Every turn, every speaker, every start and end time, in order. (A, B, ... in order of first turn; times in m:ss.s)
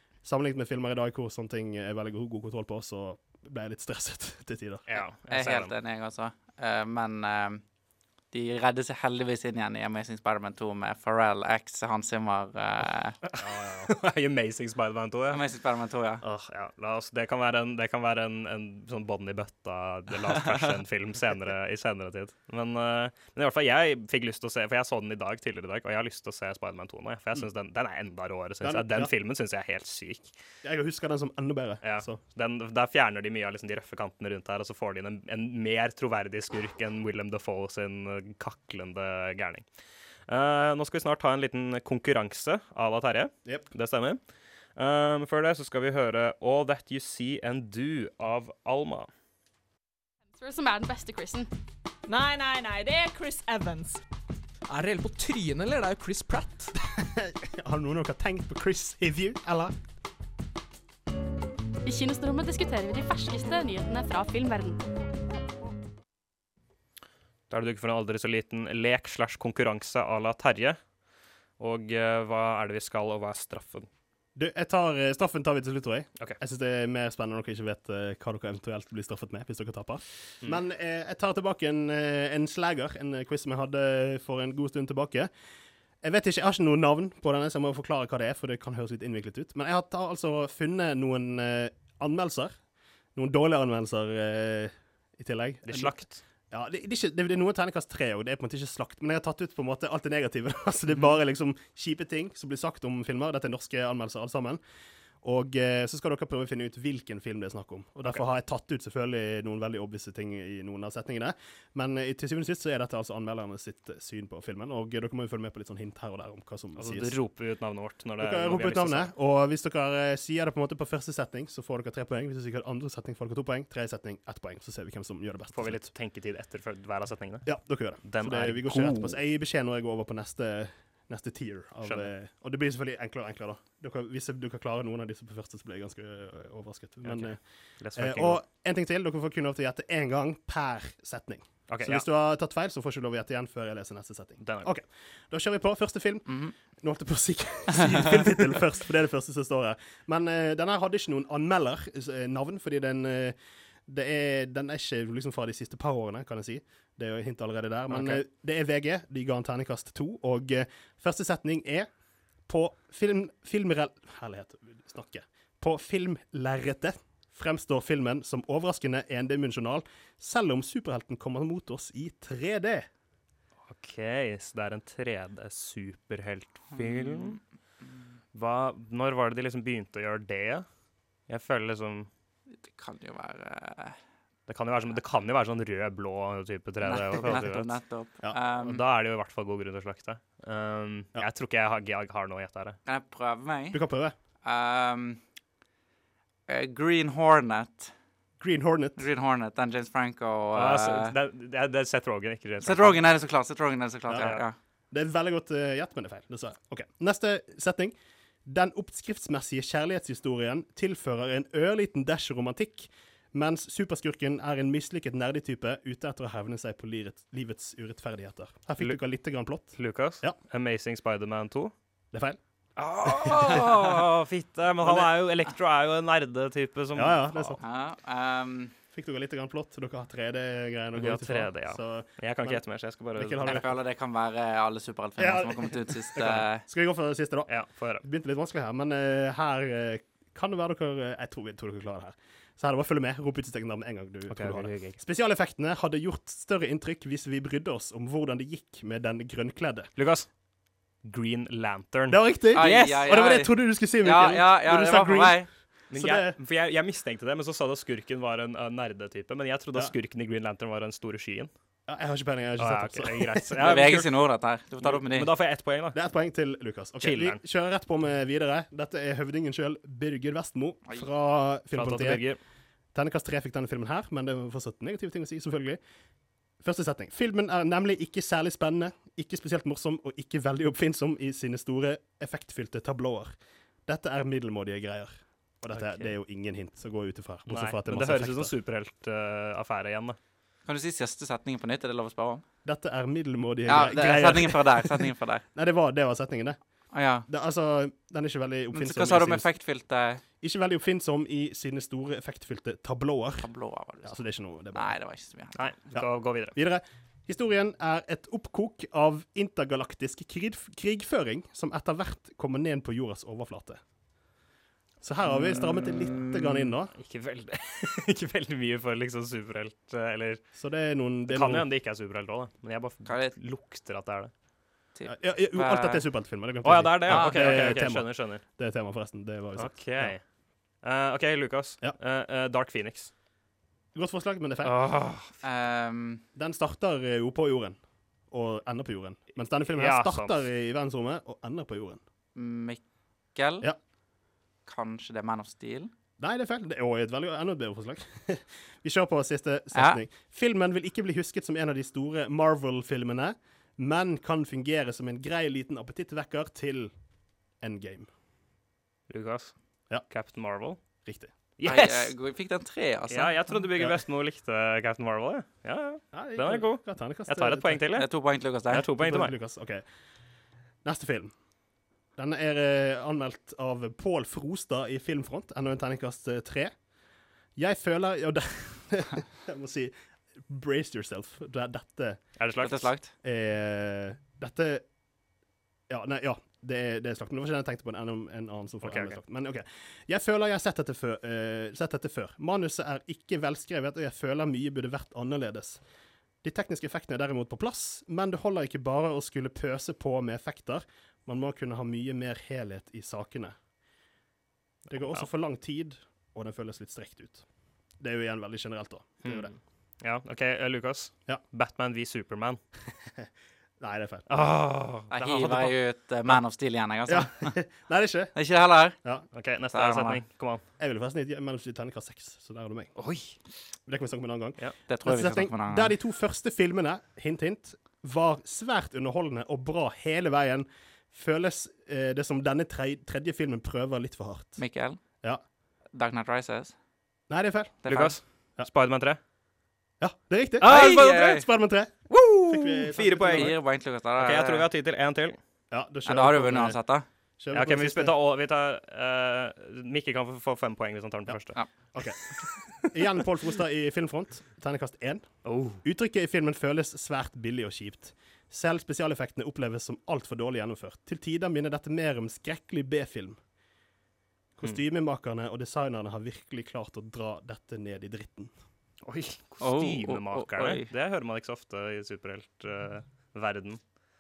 0:00.2-0:04.9 A
0:04.9-0:05.7 B
0:05.3-0:07.6 C
0:08.3-0:13.2 C
0:13.3-0:15.4 B
0:13.4-0:13.9 A
0:15.3-0:16.2 C
0:16.2-0:30.3 B
0:28.6-0:29.1 A
0:30.6-0:32.2 A
0:31.8-0:39.6 B
0:40.3-0:44.2 B
0:44.8-0:49.1 B
0:50.3-0:51.5 D
0:52.1-0:54.0 E
0:54.7-0:56.7 F
0:57.0-0:59.8 A
1:01.8-1:04.9 D
1:07.5-1:10.8 B
1:11.6-1:13.9 B
1:14.4-1:25.3 A
1:26.0-1:32.6 A
1:33.2-1:36.0 A
1:35.6-1:36.2 B
1:36.5-1:44.6 A
1:45.2-1:57.2 A
1:56.8-1:59.1 B
1:58.2-2:05.8 A
2:05.5-2:09.2 B
2:07.4-2:41.9 A
2:11.8-2:12.1 B
2:17.0-2:18.4 B
2:21.7-2:22.0 B
2:24.4-2:24.7 B
2:42.5-2:52.9 A
2:53.7-2:57.4 B
2:56.7-2:57.4 C
2:58.3-3:00.7 B
3:01.3-3:02.1 B
3:02.6-3:04.0 C
3:04.5-3:07.8 B
3:06.9-3:08.8 C
3:08.6-3:12.8 B
3:12.9-3:13.8 C
3:13.7-3:14.2 A
3:14.4-3:15.2 C
3:16.5-3:17.9 C
3:18.4-3:19.0 A
3:19.0-3:21.2 C
3:20.6-3:23.0 B
3:22.6-3:24.6 C
3:24.1-3:24.3 A
3:24.9-3:40.4 A
3:39.7-3:41.7 B
3:42.1-3:42.4 A
3:42.8-3:47.6 B
3:43.0-3:43.8 A
3:44.8-3:45.1 A
3:47.0-3:47.6 A
3:47.6-3:48.7 C
3:48.9-3:52.6 A
3:51.0-3:53.5 B
3:53.2-3:53.7 A
3:53.4-3:56.6 C
3:55.2-4:09.9 A
3:57.5-3:58.0 B
4:04.3-4:05.0 B
4:10.0-4:10.3 B
4:11.0-4:13.1 B
4:12.1-4:16.4 A
4:12.6-4:15.5 C
4:15.9-4:21.5 B
4:21.9-4:23.9 A
4:22.6-4:24.1 B
4:23.6-4:25.3 C
4:24.8-4:26.0 B
4:25.9-4:32.2 A
4:27.0-4:27.4 B
4:31.7-4:32.4 B
4:32.9-4:35.8 A
4:36.6-4:43.4 A
4:43.9-4:48.5 A
4:45.8-4:46.1 C
4:47.5-4:50.2 B
4:50.7-4:52.4 C
4:52.6-4:59.5 A
4:53.7-4:55.4 C
4:56.9-4:57.3 C
4:58.7-5:00.2 C
5:00.4-5:03.5 A
5:03.4-5:05.9 C
5:04.0-5:05.0 A
5:05.6-5:06.6 B
5:05.9-5:13.8 A
5:15.0-5:16.9 A
5:15.3-5:16.7 C
5:17.0-5:20.4 B
5:20.5-5:21.7 A
5:21.3-5:24.3 B
5:23.0-5:23.4 C
5:25.0-5:26.1 C
5:25.1-5:30.2 A
5:26.6-5:28.4 B
5:27.1-5:27.8 C
5:29.6-5:33.1 B
5:33.9-5:34.7 A
5:34.6-5:35.3 B
5:35.4-5:36.2 C
5:36.4-5:42.0 A
5:39.7-5:40.4 B
5:42.4-5:43.7 C
5:44.7-5:45.9 C
5:46.2-5:56.9 A
5:49.7-5:50.0 C
5:57.6-5:58.1 A
5:59.1-6:02.1 B
6:01.0-6:01.3 A
6:01.6-6:03.6 C
6:03.1-6:09.3 B
6:06.1-6:07.8 A
6:08.0-6:08.9 C
6:09.0-6:09.8 A
6:10.8-6:11.3 A
6:12.2-6:16.9 A
6:17.6-6:22.4 A
6:22.4-6:22.9 B
6:22.6-6:23.1 C
6:23.2-6:24.9 A
6:25.9-6:35.8 A
6:28.8-6:29.2 B
6:36.4-6:43.6 A
6:44.9-6:47.4 A
6:48.0-6:49.5 A
6:49.2-6:52.6 B
6:53.8-6:54.3 A
6:54.3-6:55.8 B
6:55.1-6:57.6 C
6:57.1-6:58.4 A
6:58.3-6:59.0 C
6:59.0-6:59.3 A
6:59.3-7:00.6 B
6:59.7-7:00.2 C
7:00.8-7:03.0 A
7:03.0-7:03.4 B
7:03.8-7:14.6 A
7:04.9-7:05.9 C
7:14.6-7:15.0 C
7:15.9-7:16.8 C
7:17.3-7:17.9 A
7:17.8-7:18.2 C
7:17.9-7:19.2 B
7:20.0-7:23.5 A
7:20.6-7:21.5 B
7:20.6-7:21.4 C
7:22.1-7:25.4 B
7:23.2-7:24.7 C
7:25.7-7:26.8 A
7:26.1-7:27.1 C
7:27.4-7:28.2 A
7:27.5-7:31.6 B
7:31.9-7:43.4 A
7:32.3-7:33.0 B
7:35.4-7:35.8 B
7:44.6-7:48.5 A
7:49.0-7:53.8 B
7:49.6-7:50.9 C